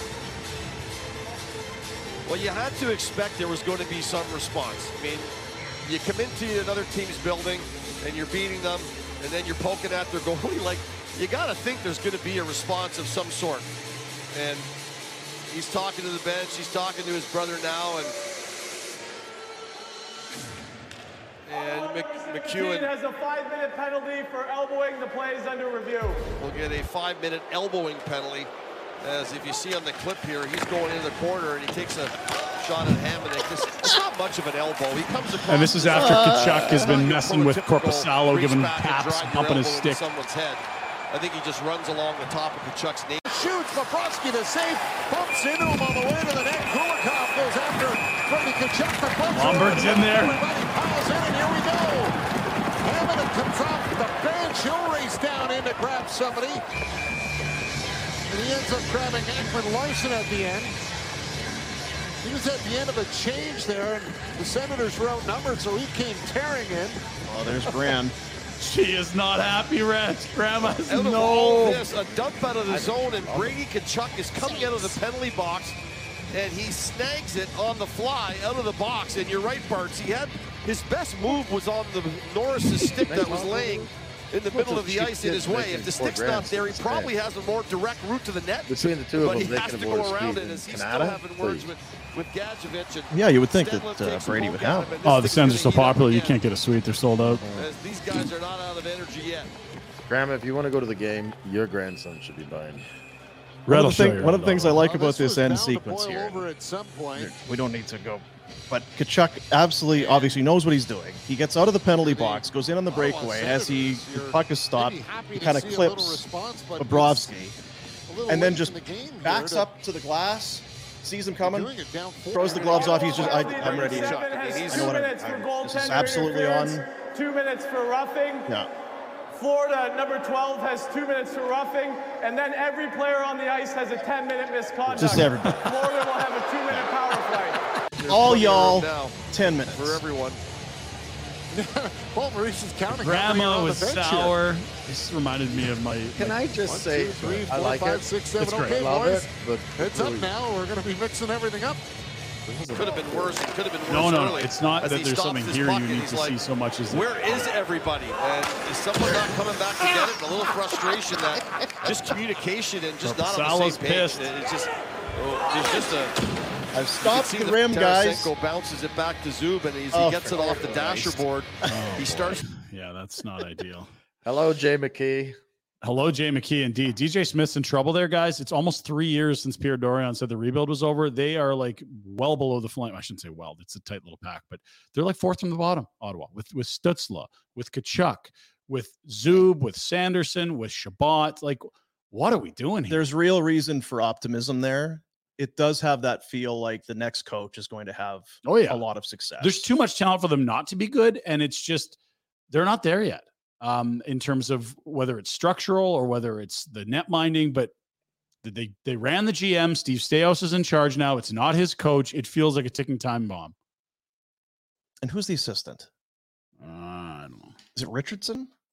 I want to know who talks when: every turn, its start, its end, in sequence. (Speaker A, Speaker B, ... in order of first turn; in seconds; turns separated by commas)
Speaker A: 2.3-5.3, Speaker A: 5.8-13.7, Speaker A: 14.3-14.7, Speaker A: 15.5-18.2, Speaker A: 21.4-22.9, Speaker B: 21.6-26.2, Speaker A: 26.4-28.5, Speaker A: 29.0-43.2, Speaker C: 35.5-40.0, Speaker D: 35.9-37.0, Speaker E: 43.3-52.2, Speaker C: 49.3-50.4, Speaker E: 52.8-56.6, Speaker E: 58.3-60.8, Speaker E: 62.2-67.0, Speaker D: 67.2-68.1, Speaker C: 68.6-71.9, Speaker A: 70.8-75.8, Speaker F: 72.7-73.6, Speaker A: 76.3-96.4, Speaker F: 82.9-83.9, Speaker F: 84.5-87.1, Speaker F: 88.7-91.7, Speaker D: 93.1-94.9, Speaker C: 95.0-97.4, Speaker F: 97.2-97.7, Speaker A: 97.5-99.5, Speaker F: 100.1-102.9, Speaker C: 103.7-104.8, Speaker D: 103.7-106.5, Speaker E: 104.7-107.3, Speaker D: 107.2-116.2, Speaker E: 110.0-110.4, Speaker E: 111.9-117.5, Speaker D: 116.8-117.6, Speaker E: 118.1-119.7, Speaker D: 118.3-121.7, Speaker E: 121.4-124.5, Speaker D: 122.3-126.9, Speaker B: 122.9-128.5, Speaker A: 123.1-125.5, Speaker B: 129.3-137.6, Speaker D: 135.0-135.7, Speaker C: 135.0-135.8, Speaker A: 138.0-140.4, Speaker D: 138.1-140.0, Speaker E: 141.5-144.4, Speaker C: 143.0-146.4, Speaker F: 146.2-150.3, Speaker E: 146.6-151.8, Speaker C: 148.4-148.8, Speaker F: 152.4-153.4, Speaker A: 152.7-156.4, Speaker C: 153.9-157.5, Speaker A: 156.9-166.2, Speaker C: 163.0-164.3, Speaker D: 166.7-168.3, Speaker A: 167.0-172.4, Speaker D: 169.9-172.1, Speaker C: 171.7-173.9, Speaker F: 174.2-175.4, Speaker C: 175.8-193.0, Speaker D: 192.9-199.7, Speaker C: 198.4-198.8, Speaker C: 199.4-202.0, Speaker C: 202.5-207.7, Speaker C: 208.4-213.5, Speaker D: 215.0-215.9, Speaker C: 216.6-217.6, Speaker D: 217.7-218.5